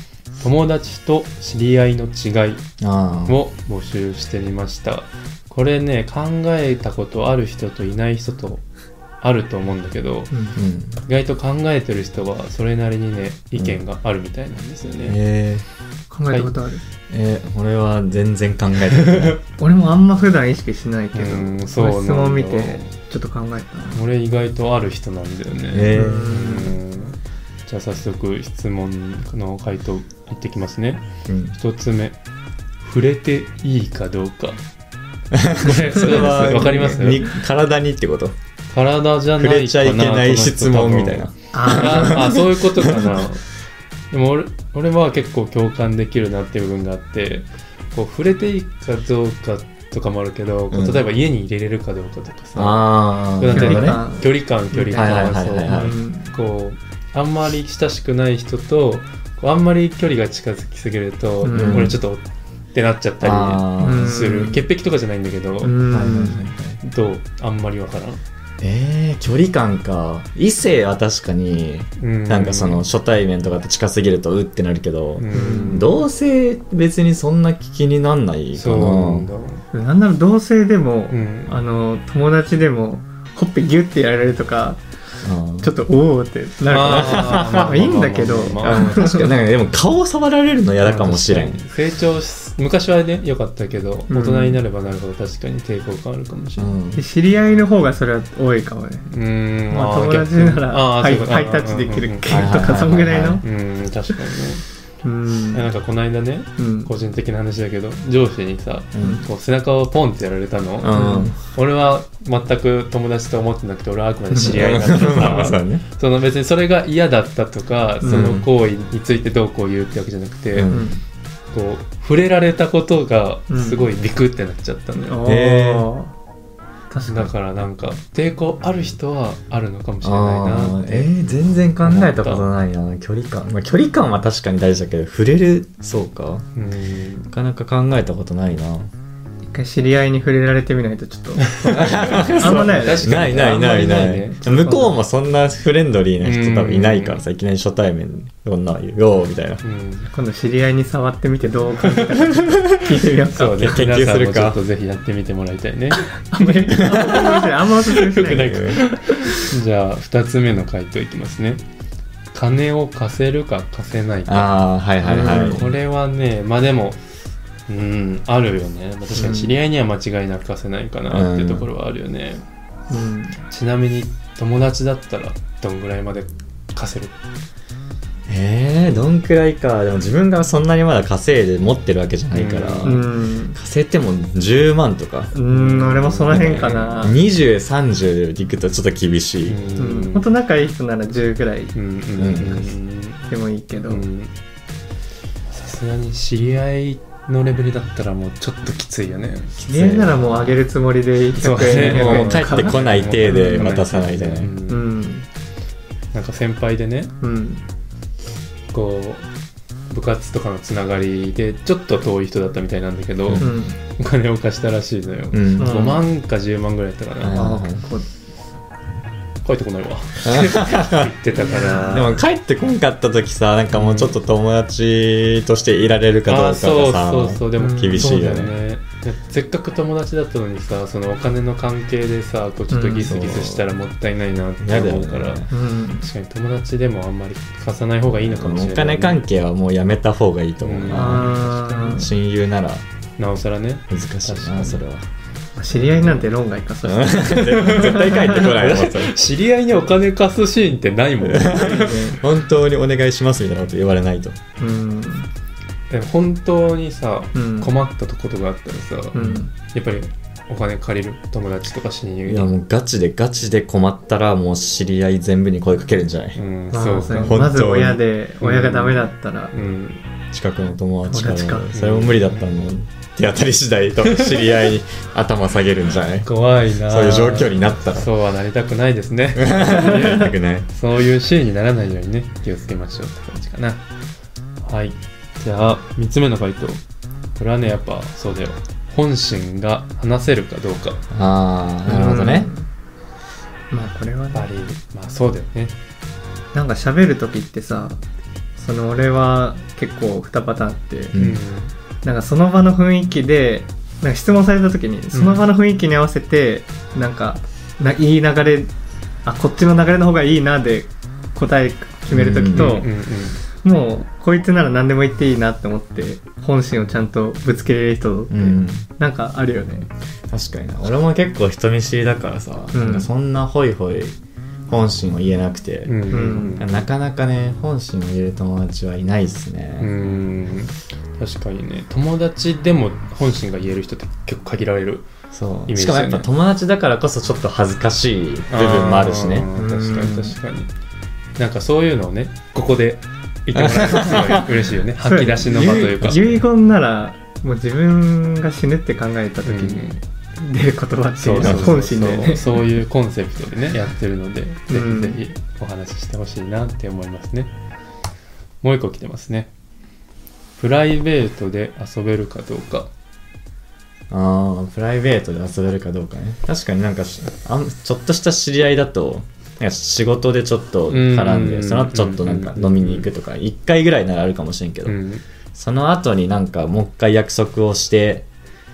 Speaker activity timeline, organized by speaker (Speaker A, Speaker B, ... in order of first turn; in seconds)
Speaker A: 0.4-2.6, 3.3-8.6, 9.2-10.3, 11.0-15.2, 19.0-19.4, 21.1-22.9, 23.9-32.2, 32.8-34.6, 35.6-37.3, 38.7-43.5, 44.1-65.8, 66.8-68.2, 72.0-72.8, 75.2-75.9, 78.5-79.6, 81.1-81.6, 86.7-89.2, 90.8-96.8, 99.1-102.3, 103.4-104.7, 105.5-120.7, 121.5-125.2, 127.0-131.1, 131.8-132.5, 136.5-137.3, 141.5-144.7, 146.2-147.2, 149.6-150.1, 153.1-156.1, 158.0-161.6, 162.3-164.5, 165.0-167.0, 167.7-172.4, 173.5-177.1, 182.3-183.0, 185.5-187.1, 189.5-190.3, 191.7-193.3, 193.9-194.3, 195.5-199.5, 201.4-204.9, 206.1-207.1, 208.7-209.3, 209.9-217.4, 219.4-222.1, 223.7-224.2, 226.3-235.5, 236.0-239.2, 240.6-242.0, 243.2-244.8, 245.7-246.3, 247.3-252.1, 255.9-262.5, 266.3-267.4, 268.4-270.0, 271.7-272.6, 274.1-274.5, 276.2-283.8, 284.6-286.8, 287.4-291.0, 294.3-295.8, 301.1-301.7, 305.1-305.5, 312.5-313.4, 325.8-326.8, 329.8-335.1, 335.7-336.3, 338.5-340.7, 341.4-346.4, 349.4-350.0, 351.2-357.5, 358.6-359.5, 360.6-362.9, 370.9-373.1, 374.9-375.2
Speaker B: 2.8-3.4, 10.6-11.0, 15.0-15.6, 17.1-19.4, 25.7-26.3, 31.2-31.6, 35.3-38.3, 39.4-43.0, 50.7-51.0, 52.5-54.0, 54.9-55.9, 61.5-62.0, 63.2-64.2, 65.9-66.8, 68.6-79.3, 85.2-85.7, 86.8-87.9, 88.6-91.6, 96.6-97.0, 102.3-103.4, 108.9-109.2, 110.8-111.3, 114.5-115.8, 118.0-118.5, 120.5-121.0, 125.2-125.9, 130.0-136.4, 137.3-138.9, 141.7-149.6, 153.6-154.6, 156.9-157.2, 158.3-158.8, 164.3-165.7, 171.1-171.7, 178.3-185.3, 186.3-189.6, 192.2-192.7, 199.6-200.6, 201.5-204.5, 215.3-215.8, 217.2-217.8, 220.2-221.1, 221.8-228.5, 233.1-233.7, 234.6-235.5, 238.2-241.4, 241.9-242.8, 243.9-245.1, 246.8-249.1, 251.2-254.4, 259.1-259.4, 262.2-266.4, 267.2-268.0, 270.3-276.3, 276.9-278.1, 279.4-280.7, 291.1-292.5, 301.1-301.4, 312.1-312.8, 318.3-318.9, 320.3-324.2, 324.7-329.9, 335.3-339.5, 343.5-344.4, 351.4-351.7, 364.1-375.0, 375.5-378.3
Speaker C: 10.3-10.6, 16.1-16.8, 19.6-24.1, 25.9-26.8, 41.5-42.4, 53.5-56.3, 61.4-61.9, 63.8-64.7, 65.6-66.4, 75.3-76.0, 79.7-84.8, 85.6-89.3, 94.1-94.6, 96.9-99.1, 99.7-103.4, 105.0-105.6, 106.6-106.9, 109.0-109.3, 110.9-111.4, 114.3-115.0, 118.0-118.3, 120.7-121.0, 123.5-123.9, 125.0-126.1, 126.9-127.3, 139.5-143.3, 144.5-144.9, 150.1-153.8, 156.0-159.3, 165.1-165.6, 169.1-169.6, 172.9-173.4, 182.8-183.6, 185.3-187.2, 189.8-191.8, 193.3-194.0, 199.6-203.7, 204.7-205.2, 207.2-207.7, 213.4-213.8, 215.6-216.0, 217.3-218.1, 221.3-222.1, 227.6-228.2, 232.7-233.2, 235.5-236.1, 240.9-242.1, 245.6-248.5, 251.5-252.2, 254.6-255.3, 257.3-257.7, 259.1-259.5, 266.7-269.5, 271.1-271.7, 291.9-292.7, 293.7-294.5, 296.5-298.0, 298.6-301.1, 302.0-308.7, 309.2-312.9, 313.4-319.9, 322.7-323.1, 326.1-326.6, 339.5-340.4, 345.0-352.6, 354.7-355.2